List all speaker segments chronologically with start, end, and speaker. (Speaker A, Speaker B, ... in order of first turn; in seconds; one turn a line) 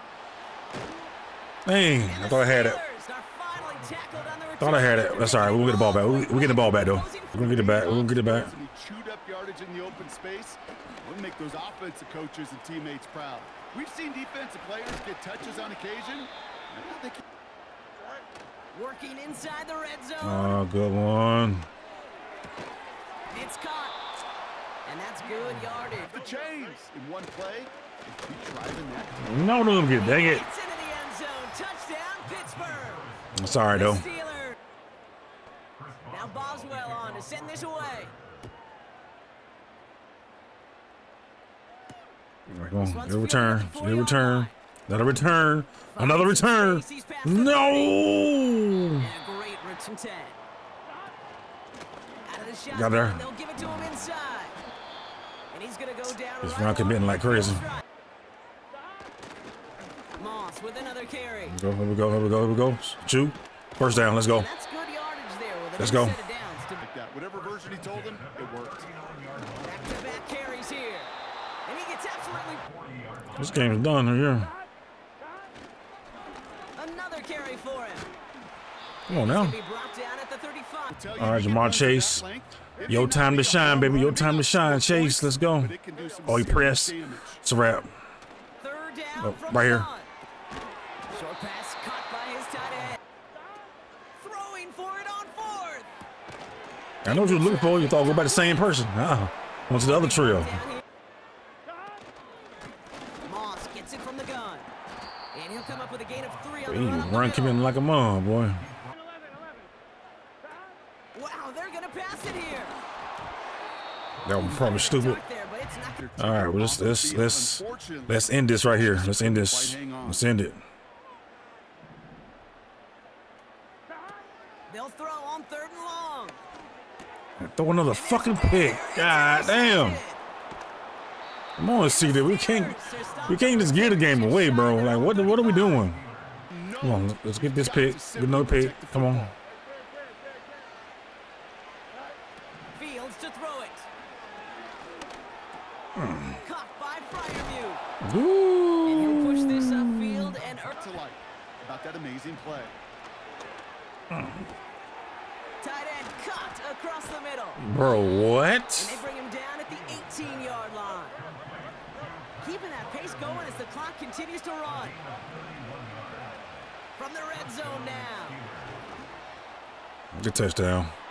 Speaker A: 1.7-2.8
Speaker B: 2.0-7.9
Speaker A: 4.6-8.6
Speaker C: 7.4-17.2
Speaker B: 18.7-20.6
Speaker A: 20.2-21.7
Speaker B: 23.3-24.0
Speaker B: 24.9-26.2
Speaker C: 26.1-29.2
Speaker A: 29.2-30.4
Speaker B: 29.9-33.1
Speaker A: 33.4-34.1
Speaker B: 33.7-34.6
Speaker B: 36.1-38.1
Speaker A: 42.5-49.1
Speaker B: 42.8-44.5
Speaker B: 45.9-48.0
Speaker B: 49.0-50.4
Speaker B: 52.2-54.6
Speaker A: 52.7-53.2
Speaker B: 55.5-57.8
Speaker A: 56.4-57.6
Speaker B: 60.2-61.6
Speaker A: 61.5-64.5
Speaker B: 64.3-66.8
Speaker A: 65.8-66.2
Speaker C: 66.8-68.9
Speaker B: 69.6-71.1
Speaker B: 71.7-72.7
Speaker A: 73.3-74.5
Speaker B: 76.8-78.1
Speaker A: 79.1-79.6
Speaker B: 79.1-81.0
Speaker C: 80.9-87.4
Speaker A: 81.2-82.3
Speaker A: 82.9-87.9
Speaker B: 88.6-90.1
Speaker A: 89.2-89.9
Speaker B: 91.1-93.0
Speaker B: 94.2-95.9
Speaker B: 97.0-98.7
Speaker A: 97.0-100.6
Speaker B: 99.7-100.8
Speaker B: 103.2-104.7
Speaker B: 105.3-107.6
Speaker A: 106.7-108.7
Speaker B: 111.1-112.8
Speaker A: 114.2-115.2
Speaker B: 114.4-116.0
Speaker C: 115.8-120.3
Speaker A: 116.2-120.6
Speaker B: 124.7-126.4
Speaker A: 127.4-130.0
Speaker B: 127.9-130.2
Speaker A: 131.6-136.0
Speaker B: 131.8-136.0
Speaker C: 136.5-139.3
Speaker A: 136.8-139.3
Speaker B: 142.8-143.9
Speaker A: 146.0-146.4
Speaker B: 146.3-147.8
Speaker A: 148.0-150.4
Speaker B: 148.8-150.7
Speaker C: 150.8-152.8
Speaker A: 154.1-154.5
Speaker B: 155.6-157.6
Speaker A: 157.6-159.0
Speaker B: 158.8-161.2
Speaker B: 162.4-165.0
Speaker B: 167.0-168.4
Speaker A: 170.1-170.9